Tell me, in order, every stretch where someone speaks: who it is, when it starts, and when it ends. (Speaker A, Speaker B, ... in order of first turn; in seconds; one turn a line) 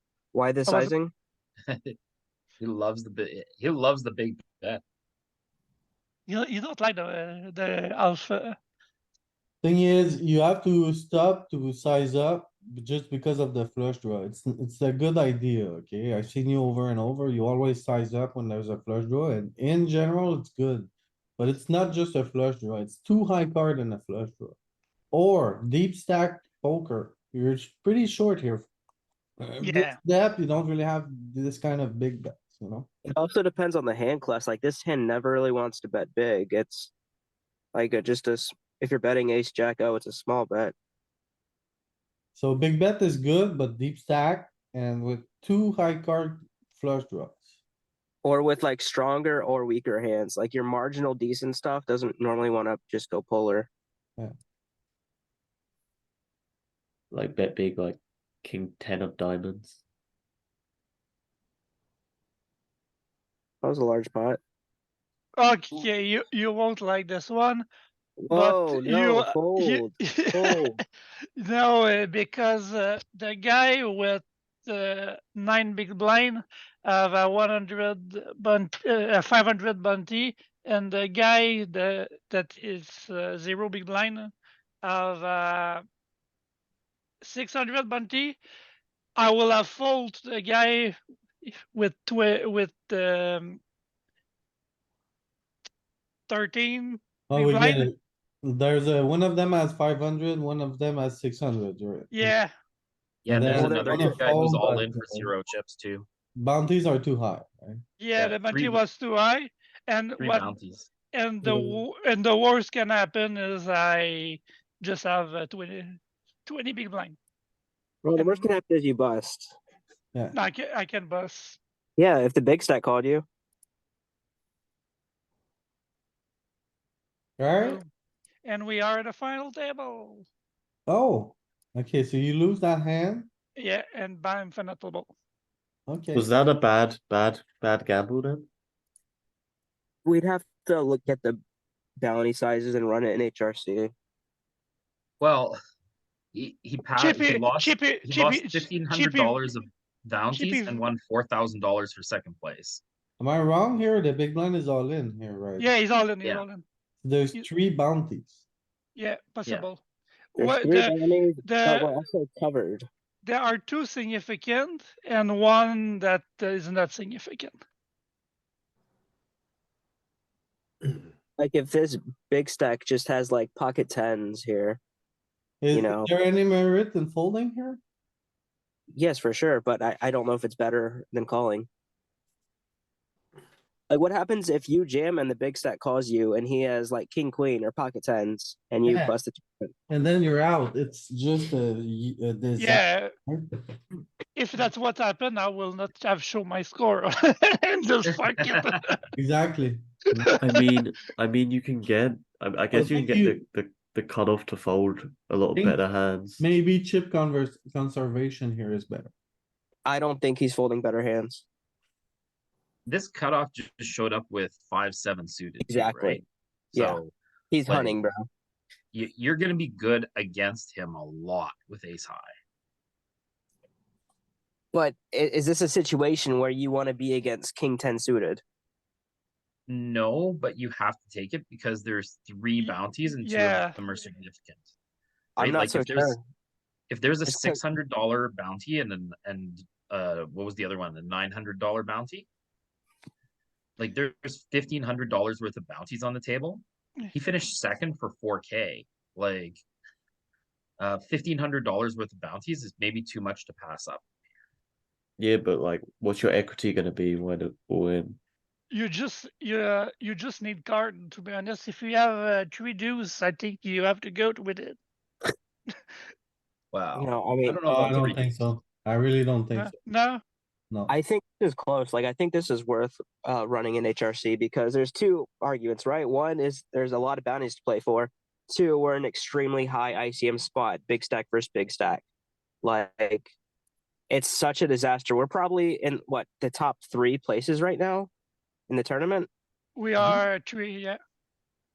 Speaker A: 0.3-1.1
Speaker B: 0.7-0.9
Speaker C: 1.7-1.9
Speaker C: 2.6-4.8
Speaker B: 6.3-8.6
Speaker D: 9.6-24.6
Speaker D: 25.1-28.7
Speaker D: 29.4-32.9
Speaker B: 29.6-30.0
Speaker A: 33.1-36.9
Speaker A: 37.7-40.7
Speaker D: 42.3-47.5
Speaker A: 48.2-53.7
Speaker E: 57.1-59.8
Speaker A: 63.6-64.4
Speaker B: 65.4-67.7
Speaker A: 68.2-70.8
Speaker B: 68.3-70.6
Speaker B: 71.4-85.8
Speaker B: 87.2-88.4
Speaker B: 89.2-93.6
Speaker B: 96.3-97.9
Speaker D: 97.3-102.3
Speaker B: 102.1-102.5
Speaker C: 103.2-106.0
Speaker D: 103.3-105.3
Speaker A: 103.5-104.3
Speaker D: 106.4-107.8
Speaker B: 108.0-110.5
Speaker C: 108.1-108.8
Speaker C: 110.2-110.9
Speaker B: 111.1-117.2
Speaker D: 111.4-111.8
Speaker A: 118.0-119.5
Speaker B: 118.1-118.5
Speaker B: 120.3-121.6
Speaker A: 122.0-123.2
Speaker D: 127.4-127.8
Speaker B: 127.6-127.9
Speaker B: 128.4-130.3
Speaker D: 130.9-133.3
Speaker B: 133.6-135.1
Speaker D: 135.9-136.3
Speaker E: 136.2-138.5
Speaker A: 140.0-141.4
Speaker A: 142.0-143.9
Speaker C: 145.2-145.6
Speaker C: 146.3-152.8
Speaker B: 146.9-149.6
Speaker B: 150.3-150.9
Speaker D: 153.2-155.7
Speaker B: 155.6-156.7
Speaker D: 157.0-158.4
Speaker B: 158.9-159.8
Speaker B: 160.3-161.9
Speaker A: 160.4-162.9
Speaker B: 163.2-167.6
Speaker A: 171.4-174.8
Speaker D: 175.6-177.8
Speaker A: 175.7-176.1
Speaker A: 178.9-181.7
Speaker A: 183.9-189.7
Speaker D: 188.8-189.1
Speaker D: 189.9-193.5
Speaker B: 192.6-193.1
Speaker B: 194.3-199.0
Speaker C: 198.3-198.6
Speaker D: 199.2-200.3
Speaker E: 200.4-206.4
Speaker D: 202.7-203.4
Speaker D: 206.4-209.1
Speaker A: 209.8-211.4
Speaker C: 212.9-217.1
Speaker A: 215.6-216.2
Speaker A: 216.7-217.0
Speaker A: 217.5-218.2
Speaker C: 217.7-218.0
Speaker C: 218.9-222.3
Speaker A: 224.7-228.4
Speaker C: 229.7-234.7
Speaker B: 232.6-233.8
Speaker C: 235.4-236.2
Speaker A: 235.4-236.2
Speaker C: 236.9-242.3
Speaker A: 237.2-237.6
Speaker C: 243.8-249.6
Speaker C: 250.8-254.1
Speaker E: 255.2-258.2
Speaker B: 258.7-264.8
Speaker C: 266.7-268.4
Speaker A: 266.9-267.6
Speaker D: 267.6-269.8
Speaker B: 269.5-270.2
Speaker A: 270.9-282.1
Speaker A: 282.6-283.3
Speaker A: 284.1-288.1
Speaker A: 288.7-289.3
Speaker B: 289.8-291.0